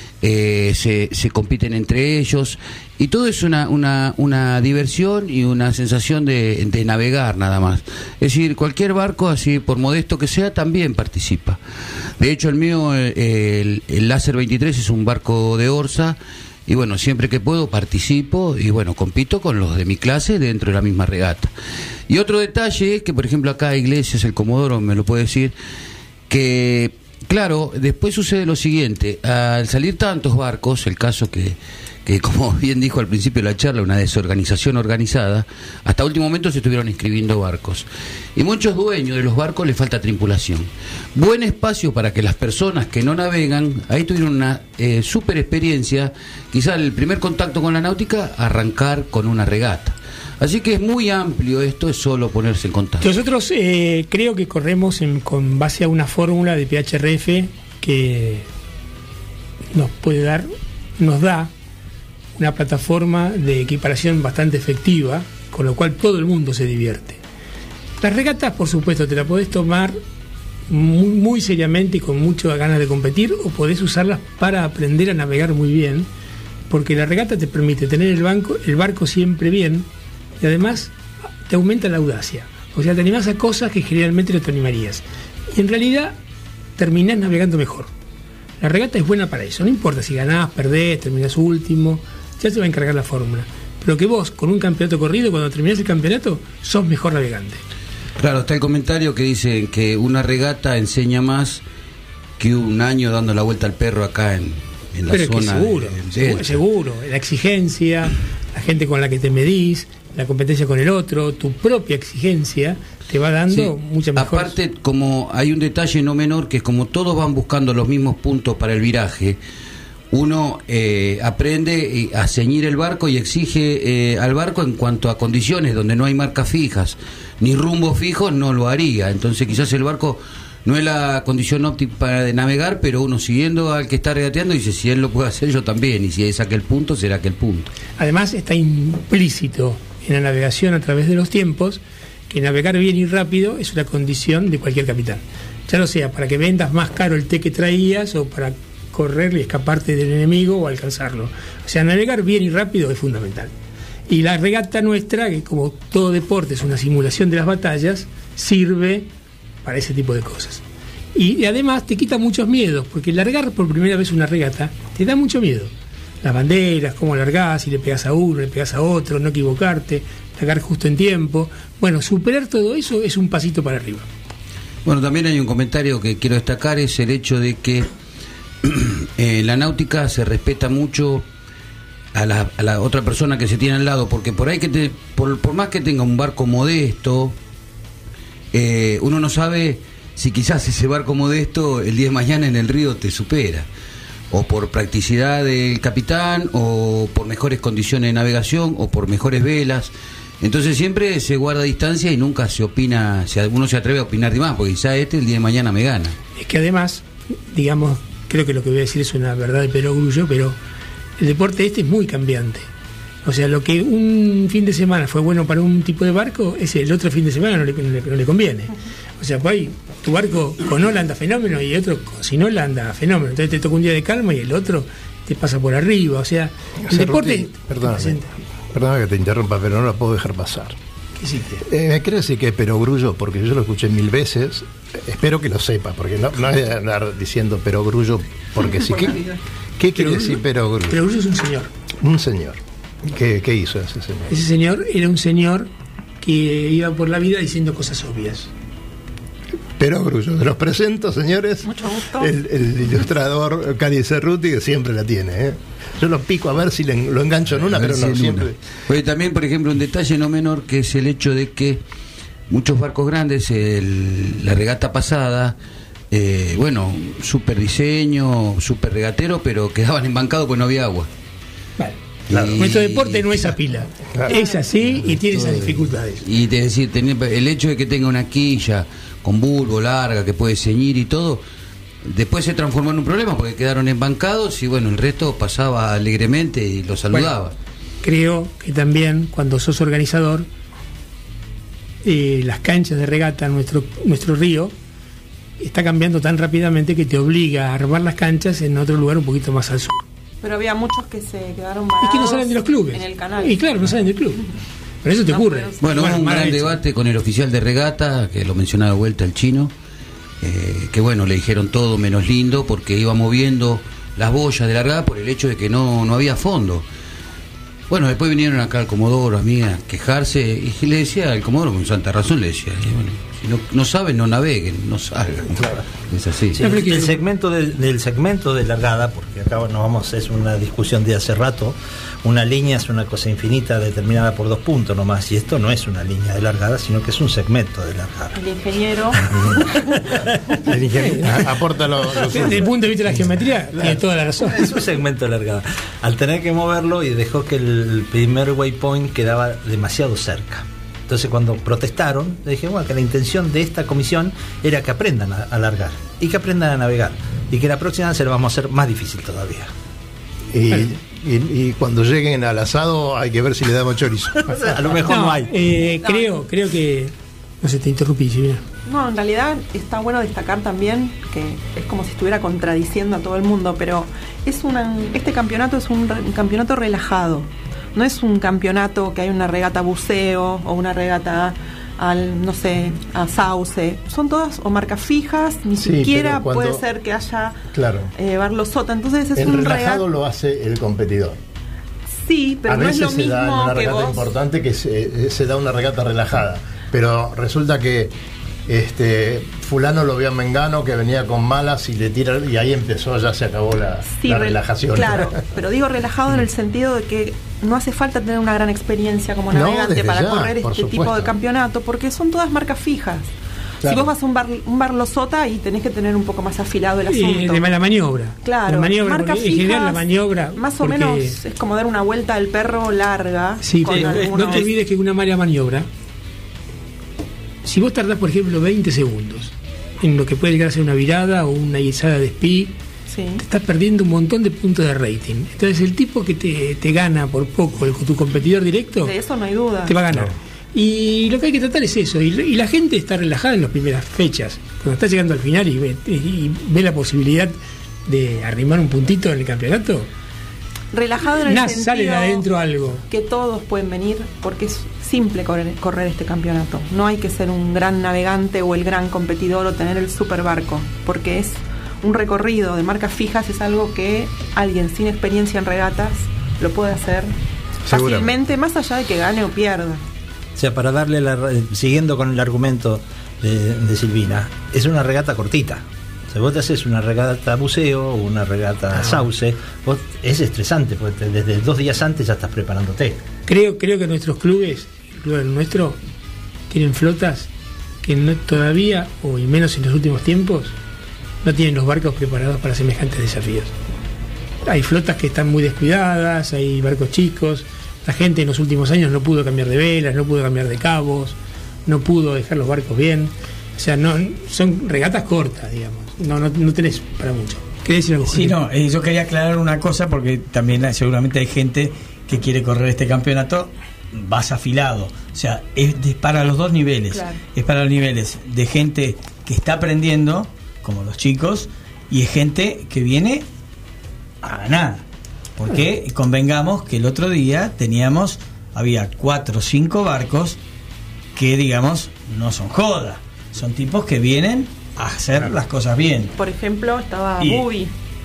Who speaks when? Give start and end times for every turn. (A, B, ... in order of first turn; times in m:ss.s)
0:00.2-0:11.6 A
0:12.2-0:21.5 A
0:22.1-0:25.5 A
0:26.3-0:53.1 A
0:53.0-0:58.5 B
0:59.7-1:01.5 B
1:02.4-1:07.2 B
1:08.0-1:10.0 B
1:10.7-1:16.1 B
1:16.7-1:19.9 B
1:20.4-1:20.9 B
1:21.5-1:26.2 B
1:26.8-1:27.9 B
1:28.6-1:37.6 B
1:38.2-1:41.6 A
1:42.4-1:46.6 A
1:45.1-1:54.6 B
1:53.5-1:59.4 A
2:00.1-2:17.7 A
2:18.0-2:33.5 B
2:34.1-2:39.1 B
2:39.6-2:40.6 B
2:41.1-2:54.1 B
2:54.8-2:57.9 A
2:58.6-3:01.2 A
3:02.1-3:07.4 A
3:08.5-3:13.7 A
3:14.3-3:26.2 A
3:26.4-3:30.6 B
3:31.2-3:32.7 B
3:33.2-3:48.3 B
3:46.8-3:50.8 C
3:51.2-3:51.6 B
3:51.6-3:59.2 C
3:59.8-4:01.0 C
3:59.9-4:01.7 B
4:02.0-4:04.4 C
4:04.3-4:05.7 B
4:06.2-4:08.5 B
4:09.8-4:18.6 C
4:11.6-4:12.3 D
4:17.7-4:21.8 A
4:22.5-4:25.6 A
4:26.1-4:31.1 A
4:32.3-4:33.4 A
4:32.3-4:32.6 C
4:32.5-4:36.2 B
4:34.1-4:35.2 C
4:34.3-4:34.6 D
4:36.2-4:41.4 A
4:42.0-4:47.5 A
4:48.0-4:50.5 B
4:52.0-4:54.7 B
4:55.6-5:00.0 B
5:00.4-5:03.8 D
5:02.0-5:04.4 B
5:05.0-5:06.7 B
5:05.3-5:06.1 D
5:05.8-5:09.7 A
5:10.4-5:16.8 A
5:17.9-5:26.6 A
5:26.5-5:38.4 E
5:26.6-5:27.2 B
5:38.3-5:40.0 D
5:40.6-5:42.7 C
5:41.0-5:41.4 B
5:42.2-5:44.7 B
5:43.8-5:59.7 E
6:00.5-6:04.5 C
6:04.4-6:05.5 E
6:05.1-6:08.6 B
6:06.0-6:06.4 D
6:08.9-6:27.6 D
6:25.8-6:26.8 C
6:27.7-6:28.1 C
6:28.1-6:30.1 D
6:29.4-6:31.4 C
6:32.2-6:34.2 D
6:32.7-6:38.1 C
6:38.7-6:45.4 C
6:44.1-6:53.3 D
6:49.5-6:51.4 C
6:53.8-6:57.7 D
6:53.8-6:54.1 C
6:57.1-7:01.4 B
6:58.4-7:04.7 D
7:03.6-7:05.9 B
7:07.6-7:12.7 B
7:13.1-7:13.4 D
7:13.4-7:19.1 B
7:19.0-7:20.0 D
7:19.9-7:27.5 B
7:28.1-7:30.1 B
7:30.9-7:32.4 D
7:31.4-7:33.0 B
7:33.1-7:47.3 D
7:47.8-7:50.0 D
7:47.9-7:48.4 C
7:50.6-8:03.2 E
8:03.5-8:06.0 B
8:06.7-8:07.5 B
8:08.0-8:10.8 B
8:11.4-8:13.7 B
8:14.6-8:28.6 B
8:28.3-8:43.4 F
8:37.1-8:37.4 D
8:44.4-8:45.0 F
8:45.6-8:50.6 F
8:51.4-8:56.3 F
8:56.4-8:57.9 D
8:57.4-8:57.6 F